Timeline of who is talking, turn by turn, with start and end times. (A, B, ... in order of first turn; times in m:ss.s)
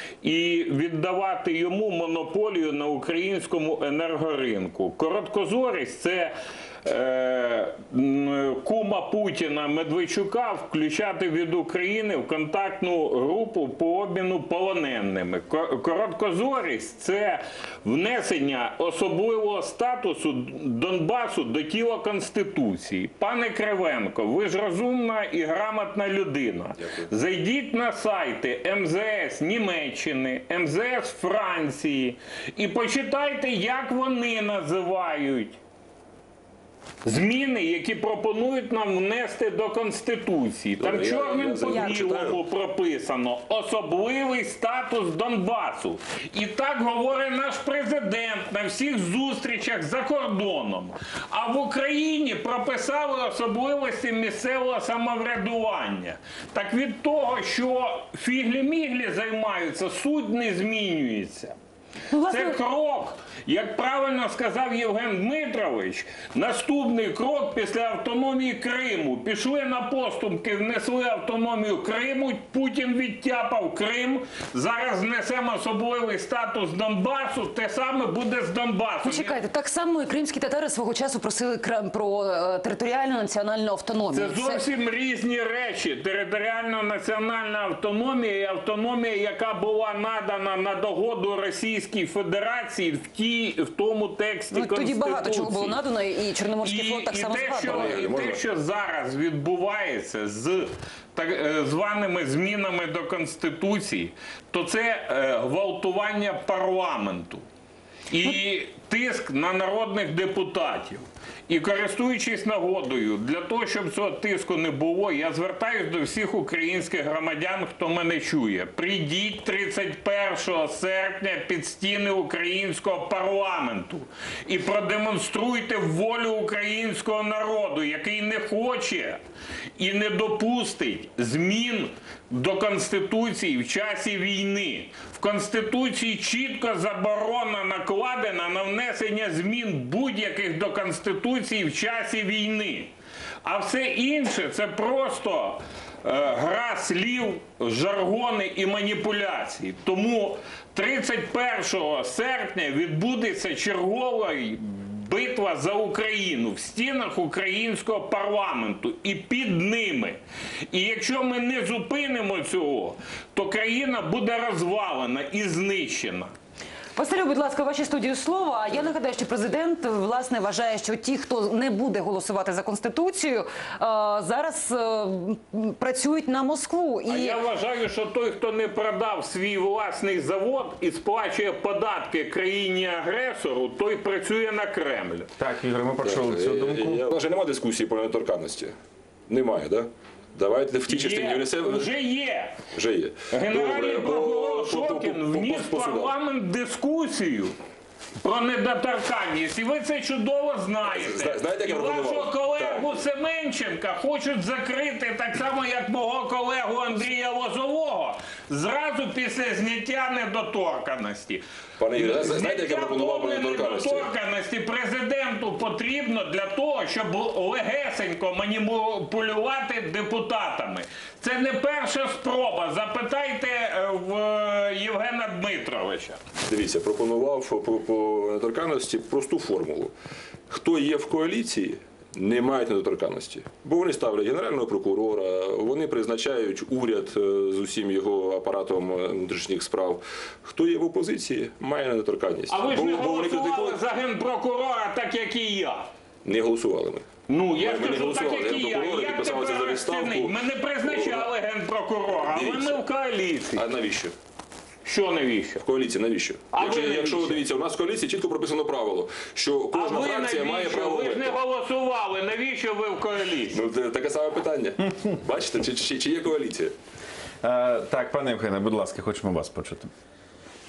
0:00.2-0:35.6 A
0:37.0-1:01.5 A
0:40.8-0:42.4 B
1:02.1-1:02.6 C
1:02.3-1:19.4 A
1:19.0-1:24.6 C
1:24.1-1:35.8 A
1:34.5-1:38.0 C
1:36.6-1:47.4 A
1:37.6-1:38.4 B
1:48.1-2:09.2 A
2:09.8-2:22.9 A
2:23.4-2:40.2 A
2:40.7-2:46.3 A
2:47.0-2:57.4 C
2:57.1-3:05.3 A
3:05.4-3:07.1 D
3:06.0-3:08.7 B
3:09.3-3:11.9 B
3:10.9-3:12.5 A
3:12.7-3:16.1 B
3:13.3-3:17.5 A
3:18.2-3:31.4 A
3:20.8-3:23.0 B
3:31.8-3:34.1 B
3:32.0-3:46.2 A
3:46.4-3:49.9 B
3:50.5-4:03.8 B
4:02.5-4:05.9 A
4:06.2-4:07.0 B
4:07.3-4:13.6 A
4:07.6-4:11.3 B
4:12.1-4:12.8 B
4:13.6-4:14.1 B
4:14.8-4:15.6 A
4:15.6-4:21.4 B
4:16.5-4:17.4 A
4:19.7-4:23.6 A
4:23.5-4:26.7 B
4:27.4-4:29.9 D